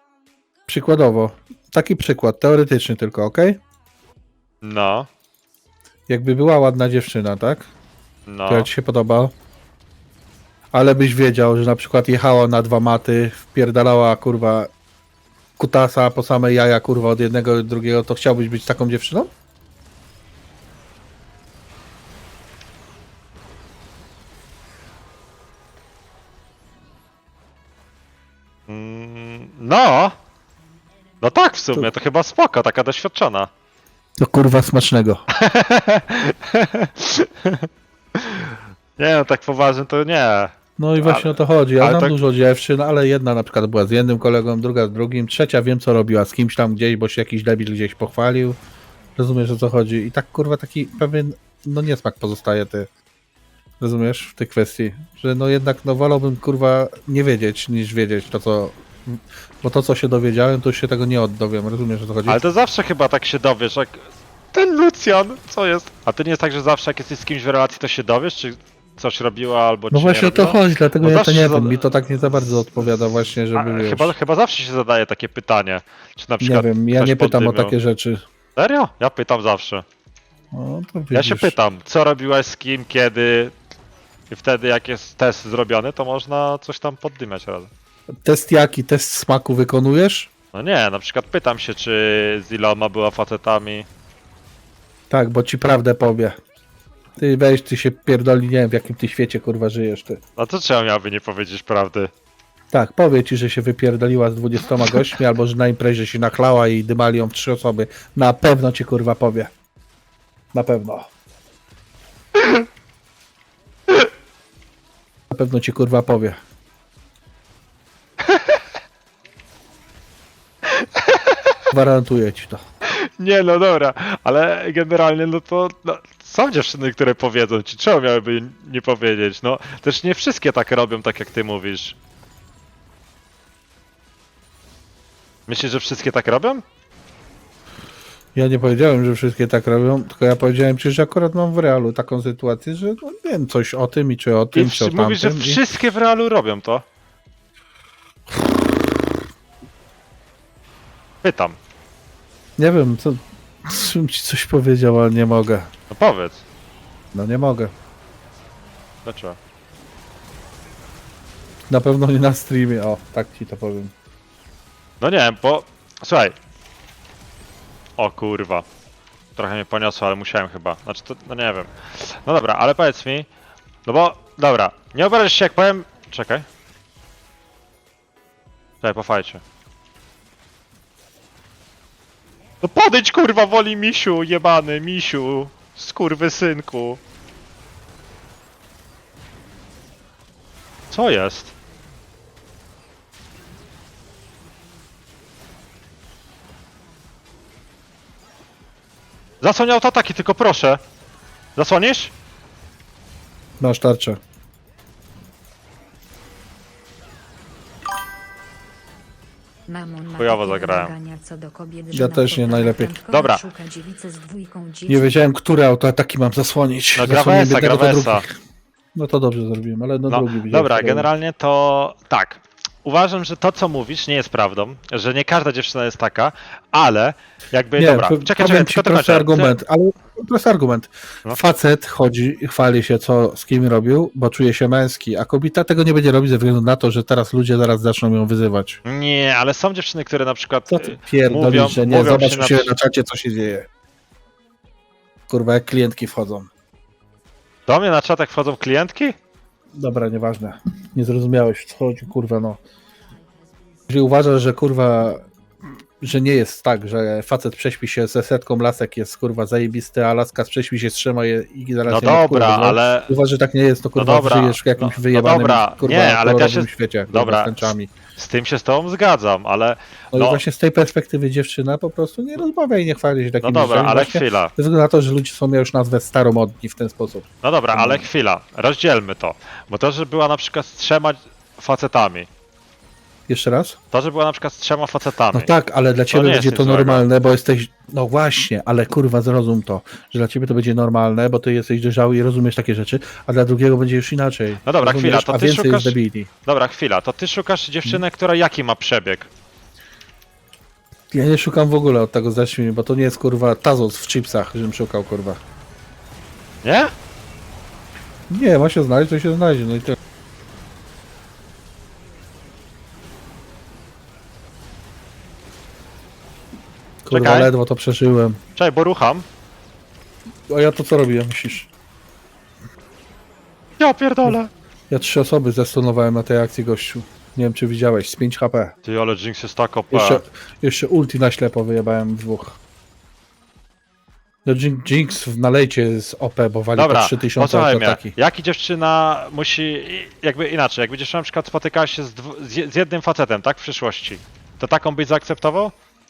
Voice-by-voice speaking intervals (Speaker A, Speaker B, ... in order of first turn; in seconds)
Speaker A: 0.7-3.6, 6.1-7.7, 8.5-9.3, 10.7-14.7, 15.6-19.3, 34.2-35.2, 40.8-48.6, 49.2-52.9, 53.8-62.4, 69.9-74.1, 76.4-78.2, 80.5-81.5, 88.1-90.3, 95.1-96.4, 97.2-100.2, 102.7-109.5, 110.5-111.1, 115.3-116.4, 121.7-122.6, 138.3-145.6, 152.6-155.7, 157.1-157.7, 161.7-163.9, 203.6-204.2, 211.9-212.9, 214.9-218.3, 218.9-221.1, 227.8-238.8, 240.7-243.7, 245.3-246.5, 249.7-252.6, 253.9-255.3, 256.0-267.9, 270.1-278.1, 283.3-283.8, 285.3-296.3, 301.1-305.4, 308.3-310.0, 317.1-318.4, 320.5-321.7, 324.9-328.7, 329.9-332.6, 334.4-338.1
Speaker B: 4.6-5.1, 8.3-8.7, 28.7-30.2, 31.2-33.5, 35.3-42.2, 62.3-71.8, 73.5-77.8, 78.6-79.8, 81.1-83.6, 84.3-87.7, 90.5-93.9, 100.4-102.1, 118.2-118.6, 120.7-121.6, 122.9-132.0, 135.5-136.6, 144.5-146.8, 151.2-151.6, 155.9-156.4, 159.1-159.4, 165.0-166.4, 168.0-168.7, 169.4-173.3, 173.9-176.5, 178.8-179.4, 182.6-187.0, 190.9-191.5, 199.4-200.8, 201.6-202.1, 210.2-210.9, 213.1-213.4, 217.0-218.3, 220.1-229.6, 238.8-242.7, 247.7-249.2, 261.9-263.1, 264.0-270.4, 273.4-274.5, 277.4-282.3, 283.9-285.5, 286.1-287.1, 294.6-299.3, 306.6-306.9, 317.1-317.5, 318.6-319.2, 323.8-324.5, 328.9-330.2, 336.8-345.7
Speaker C: 209.7-215.2